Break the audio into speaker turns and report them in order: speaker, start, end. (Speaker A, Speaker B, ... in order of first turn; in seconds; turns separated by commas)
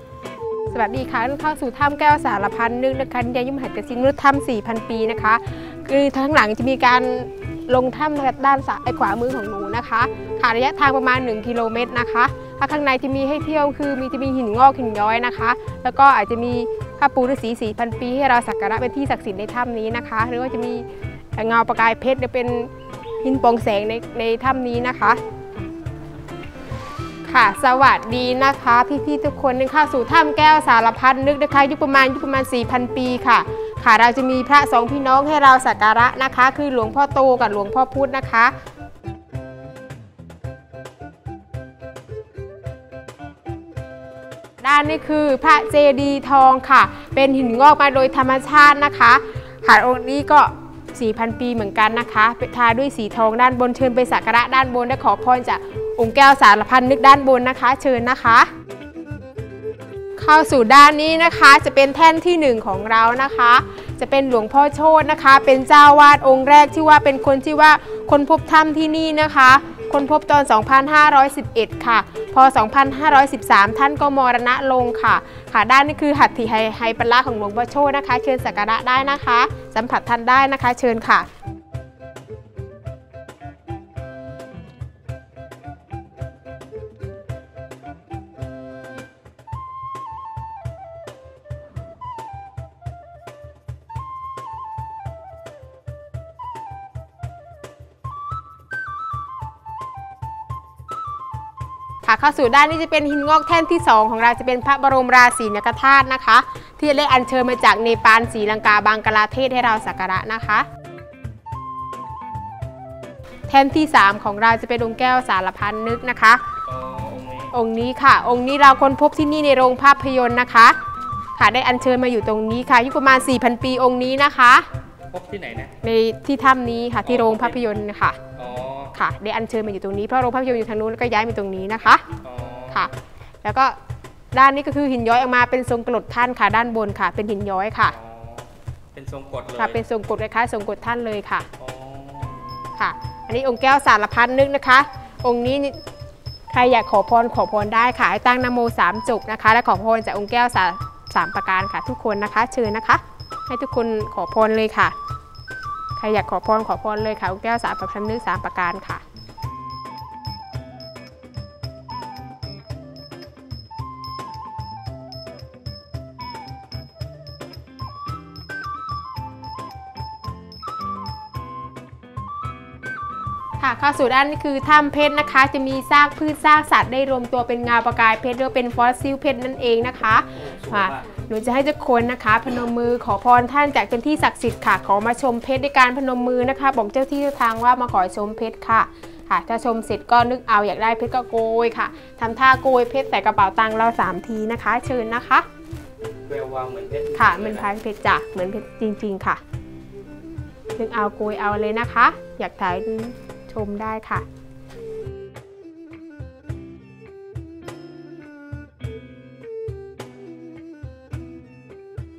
Speaker A: 0.7-22.7, Speaker A: 23.2-25.2, Speaker A: 27.3-38.5, Speaker A: 44.6-58.5, Speaker A: 60.2-81.3, Speaker A: 102.0-110.7, Speaker A: 113.5-116.4, Speaker B: 116.6-117.5, Speaker A: 117.5-120.8, Speaker A: 121.4-124.7, Speaker B: 125.1-125.7, Speaker A: 125.8-128.2, Speaker B: 127.0-127.6, Speaker B: 128.3-128.9, Speaker A: 128.9-132.0, Speaker B: 132.2-132.8, Speaker A: 133.4-133.8, Speaker A: 134.3-137.9, Speaker B: 137.9-139.8, Speaker A: 139.6-141.5, Speaker B: 141.6-142.6, Speaker A: 142.8-145.8, Speaker A: 146.5-154.9, Speaker A: 156.0-159.0, Speaker A: 173.6-195.5, Speaker B: 180.3-181.1, Speaker B: 196.2-197.7, Speaker A: 197.1-199.4, Speaker A: 200.8-204.2